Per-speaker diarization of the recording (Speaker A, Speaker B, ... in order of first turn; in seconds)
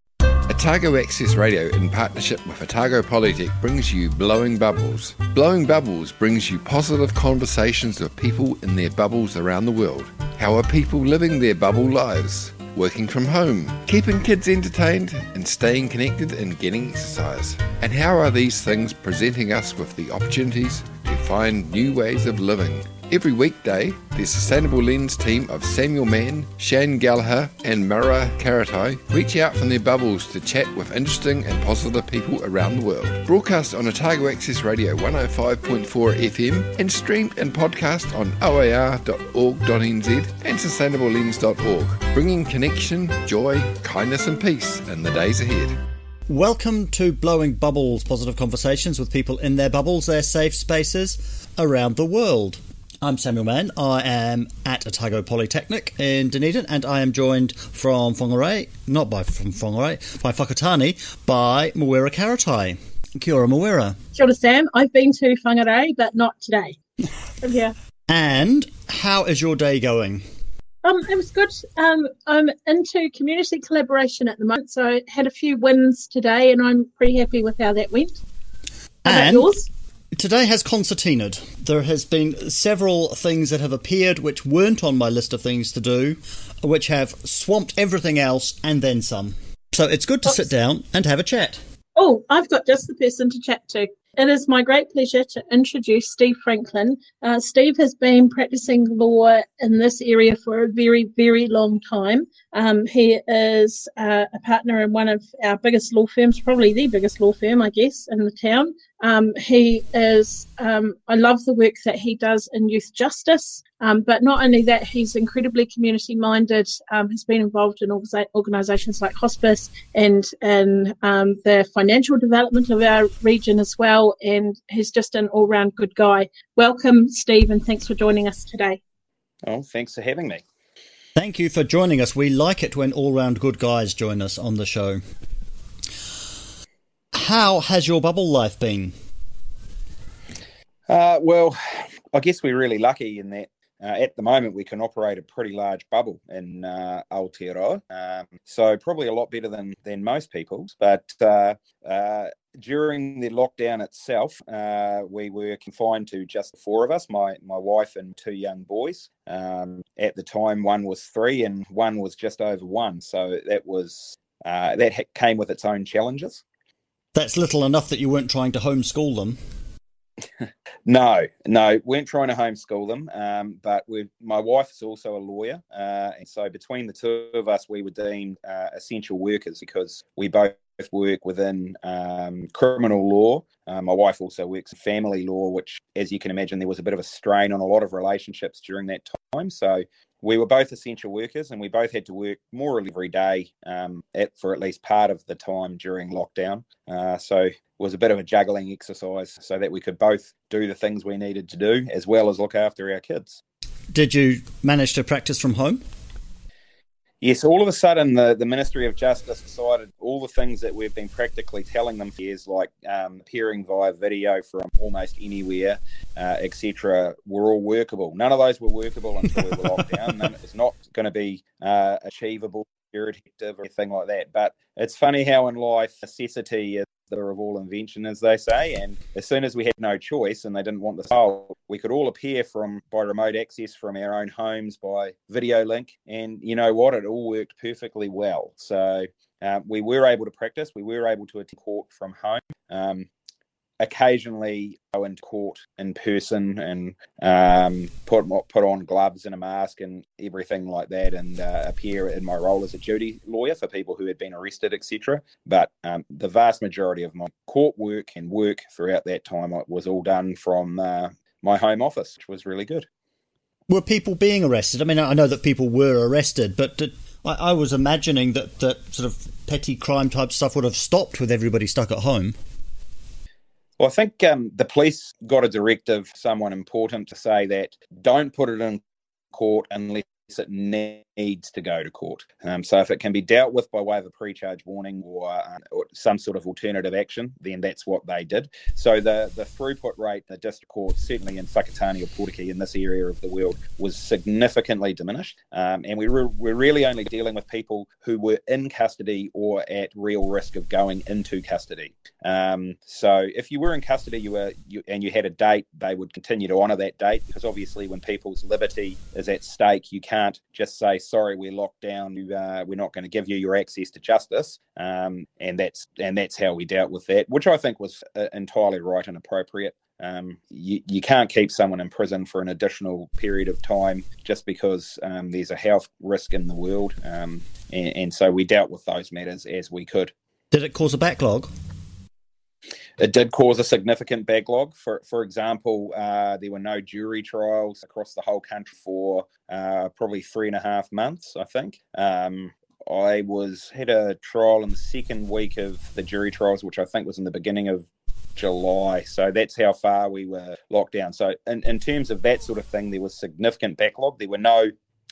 Speaker A: 0.5-45.8
Speaker B: 46.3-64.0, 68.1-70.2, 79.0-79.5, 80.1-91.6, 131.2-135.0, 137.1-138.9, 167.1-169.4, 203.9-205.8, 263.7-272.4, 330.5-331.5
Speaker C: 64.2-66.8, 67.4-67.8, 70.8-78.2, 79.1-79.7, 92.0-128.8
Speaker D: 129.4-130.4, 140.9-166.4, 170.9-203.4, 207.2-243.1, 243.8-262.9, 273.8-278.8, 279.3-330.1, 333.0-354.7